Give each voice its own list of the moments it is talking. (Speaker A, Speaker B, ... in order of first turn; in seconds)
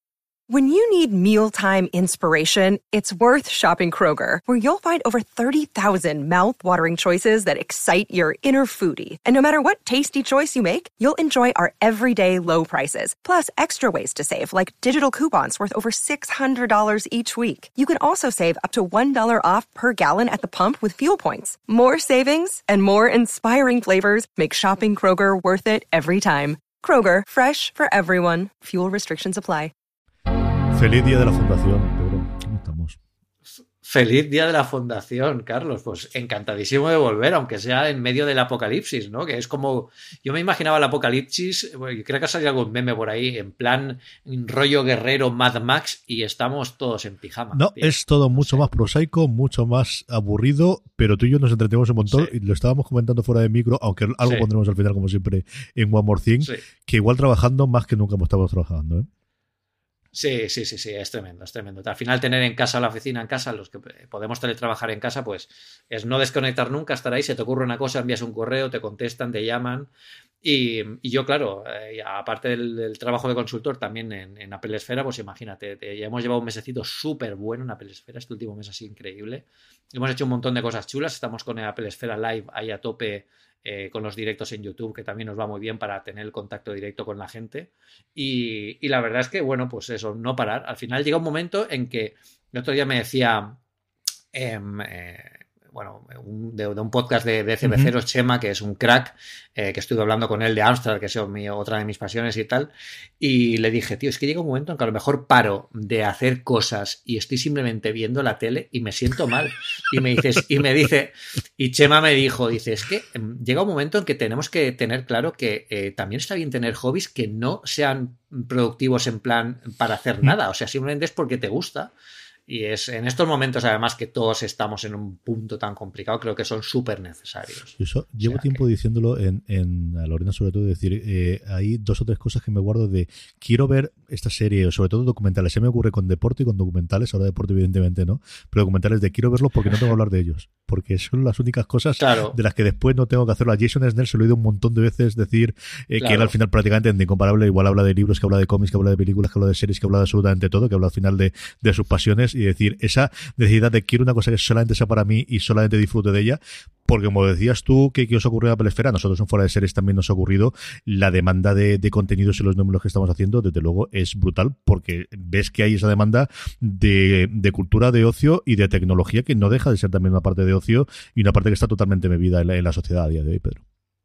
Speaker A: 0.5-29.7
Speaker B: 30.7-33.0, 47.5-59.1, 127.8-173.6
Speaker C: 33.8-48.6, 54.2-54.5, 60.1-69.9, 70.4-93.6, 94.3-121.9, 122.5-128.6, 142.0-142.3, 146.0-146.3